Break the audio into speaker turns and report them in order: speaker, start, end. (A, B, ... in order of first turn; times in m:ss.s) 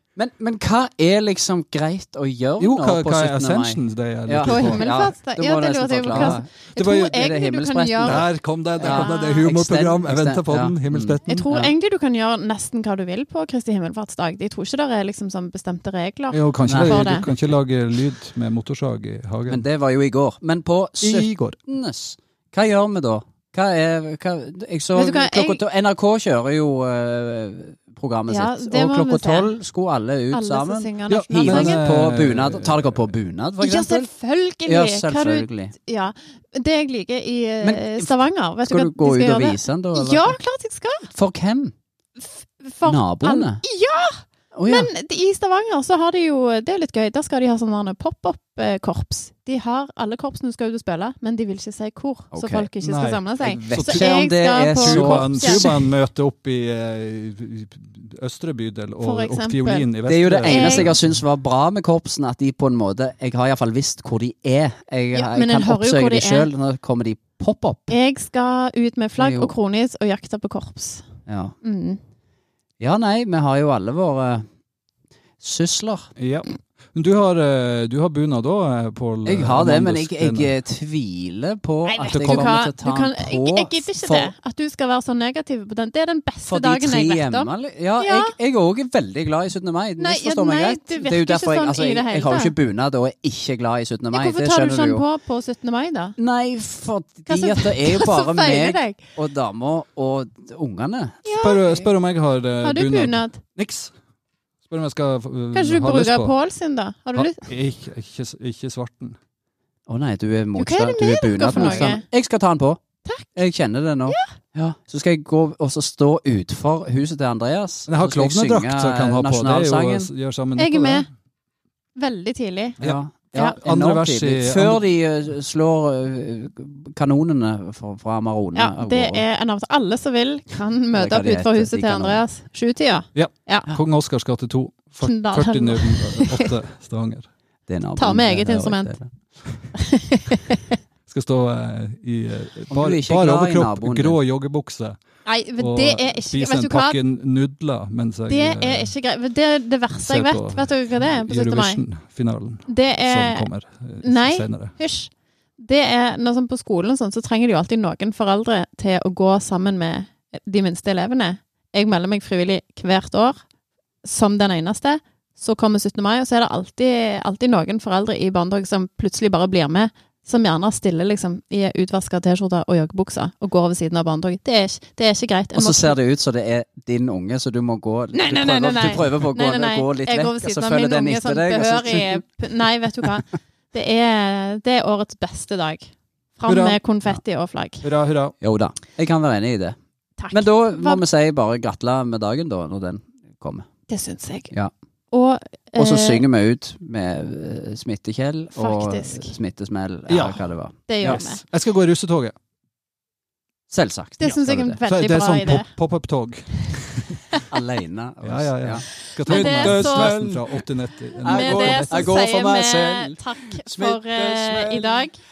0:00.2-0:06.5 A
0:02.6-0:04.9 B
0:04.4-0:09.5 C
0:06.1-0:07.3 B
0:07.2-0:11.7 A
0:08.0-0:11.5 B
0:11.3-0:17.2 C
0:16.3-0:19.6 B
0:16.7-0:17.5 A
0:19.5-0:34.1 A
0:21.0-0:21.6 B
0:24.9-0:25.6 C
0:28.3-0:29.6 C
0:30.3-0:31.8 C
0:31.1-0:33.1 B
0:33.6-0:41.1 C
0:34.6-0:35.7 A
0:37.6-0:40.4 A
0:41.1-0:41.7 A
0:42.6-0:55.7 C
0:42.8-0:43.6 A
0:44.6-0:44.9 A
0:52.3-0:52.7 A
0:52.8-0:54.1 B
0:53.4-0:55.9 A
0:54.8-1:01.0 B
0:59.0-0:59.9 C
1:00.1-1:08.0 A
1:00.4-1:01.0 C
1:05.1-1:06.5 C
1:07.9-1:11.0 C
1:09.2-1:09.5 A
1:11.3-1:11.5 A
1:11.6-1:12.0 C
1:12.8-1:14.4 A
1:15.4-1:16.1 A
1:16.2-1:20.5 B
1:19.2-1:24.3 A
1:21.8-1:28.3 C
1:22.1-1:22.6 B
1:26.5-1:35.0 A
1:30.0-1:32.5 C
1:34.1-1:36.2 C
1:36.2-1:41.2 A
1:37.3-1:39.0 C
1:41.2-1:41.9 C
1:41.4-1:43.9 B
1:42.6-1:43.4 C
1:44.7-1:46.4 B
1:45.5-1:47.4 C
1:47.1-1:49.2 B
1:49.9-1:52.8 A
1:50.6-1:52.0 C
1:51.5-1:51.9 B
1:53.0-1:53.4 C
1:53.4-2:00.1 A
1:57.9-2:01.1 B
2:00.6-2:01.1 C
2:02.0-2:02.8 C
2:02.8-2:04.8 B
2:02.8-2:09.2 A
2:03.3-2:03.6 C
2:08.6-2:13.7 C
2:10.9-2:12.2 A
2:13.1-2:17.3 B
2:15.0-2:16.5 C
2:17.7-2:19.1 A
2:18.0-2:18.9 C
2:19.7-2:20.8 C
2:21.1-2:25.0 B
2:22.7-2:24.2 A
2:25.2-2:27.0 C
2:25.6-2:28.9 B
2:28.3-2:31.8 C
2:29.9-2:34.8 B
2:32.7-2:33.5 C
2:34.0-2:43.4 C
2:44.0-2:56.0 C
2:55.5-3:02.2 A
2:58.1-3:07.8 C
3:06.5-3:06.8 B
3:07.8-3:08.4 B
3:08.4-3:09.8 A
3:10.2-3:11.0 C
3:10.3-3:13.6 A
3:13.9-3:14.5 C
3:15.1-3:16.3 C
3:15.8-3:21.3 A
3:18.6-3:19.4 C
3:20.1-3:20.4 B
3:20.9-3:21.4 C
3:21.1-3:22.4 B
3:23.7-3:24.8 A
3:24.2-3:25.7 C
3:24.9-3:27.2 B
3:27.5-3:30.6 A
3:28.2-3:32.1 B
3:29.2-3:30.2 C
3:31.2-3:35.2 C
3:31.2-3:35.1 A